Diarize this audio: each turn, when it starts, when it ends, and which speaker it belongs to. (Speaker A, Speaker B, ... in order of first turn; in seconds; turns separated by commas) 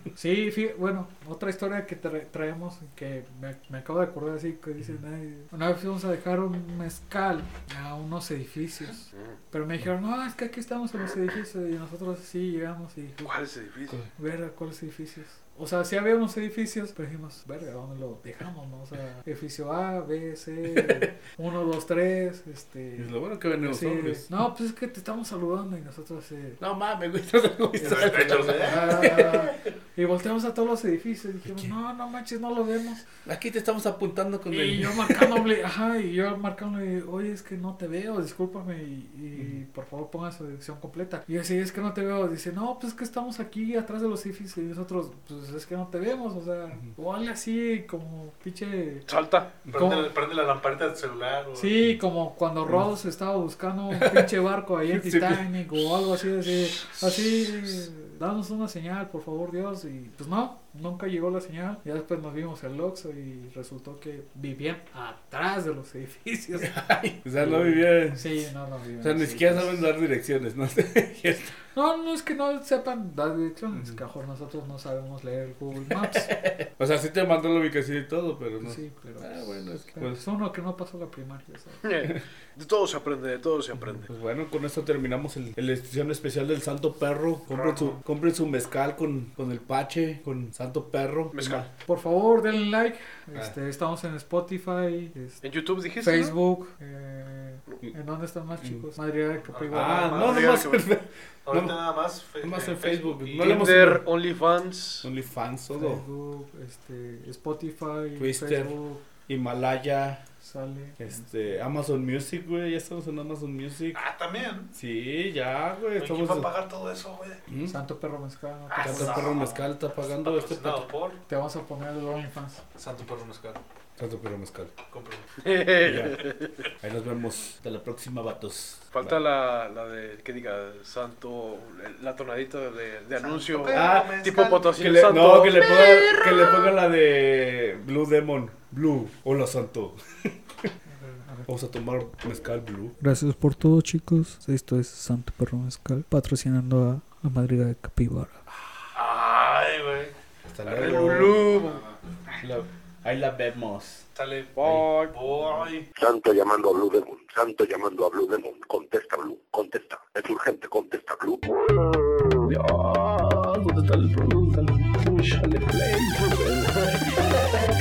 Speaker A: 0.1-13.3, Speaker B: 13.2-14.0, Speaker A: 14.2-26.6, Speaker C: 20.7-21.1, Speaker C: 23.0-24.3, Speaker C: 26.6-29.6, Speaker D: 27.8-29.4, Speaker A: 28.2-33.0, Speaker C: 33.3-35.5, Speaker A: 34.5-49.1, Speaker B: 49.1-49.5, Speaker D: 49.7-51.8, Speaker A: 49.8-50.1, Speaker A: 51.6-66.8, Speaker C: 53.9-54.4, Speaker C: 54.9-56.1, Speaker C: 66.6-68.5, Speaker A: 67.3-69.9, Speaker C: 69.0-71.6, Speaker A: 71.7-76.4, Speaker C: 73.7-74.0, Speaker C: 75.9-80.2, Speaker A: 78.6-81.9, Speaker B: 81.8-84.1, Speaker C: 83.8-91.7, Speaker D: 87.5-88.0, Speaker B: 91.3-91.7, Speaker A: 91.9-95.4, Speaker B: 95.4-96.4, Speaker A: 96.0-100.3, Speaker D: 99.5-100.6, Speaker C: 99.7-101.8, Speaker B: 100.2-100.8, Speaker D: 101.5-103.7, Speaker C: 102.4-104.0, Speaker B: 103.4-105.1, Speaker C: 105.0-106.0, Speaker A: 105.7-109.0, Speaker C: 108.2-108.8, Speaker C: 109.3-110.2, Speaker A: 110.4-111.6, Speaker C: 111.0-114.0, Speaker D: 113.9-114.7, Speaker C: 114.7-116.5, Speaker D: 116.0-117.4, Speaker C: 117.5-117.8, Speaker A: 117.7-119.4, Speaker D: 118.7-119.7, Speaker C: 118.8-120.9, Speaker D: 120.2-121.2, Speaker A: 121.3-122.6, Speaker D: 122.8-123.6, Speaker C: 124.0-124.7, Speaker D: 124.9-125.3, Speaker B: 125.4-126.6, Speaker C: 125.8-126.2, Speaker C: 126.8-129.2, Speaker B: 128.9-136.6, Speaker D: 133.2-134.8, Speaker C: 133.7-140.7, Speaker A: 140.9-141.5, Speaker C: 141.5-142.9, Speaker A: 143.0-148.4, Speaker D: 148.9-150.1, Speaker C: 150.5-151.4, Speaker B: 150.7-151.8, Speaker D: 150.7-151.8, Speaker C: 152.4-154.1, Speaker D: 154.2-155.9, Speaker B: 154.6-155.1, Speaker E: 156.0-161.4, Speaker C: 162.4-167.6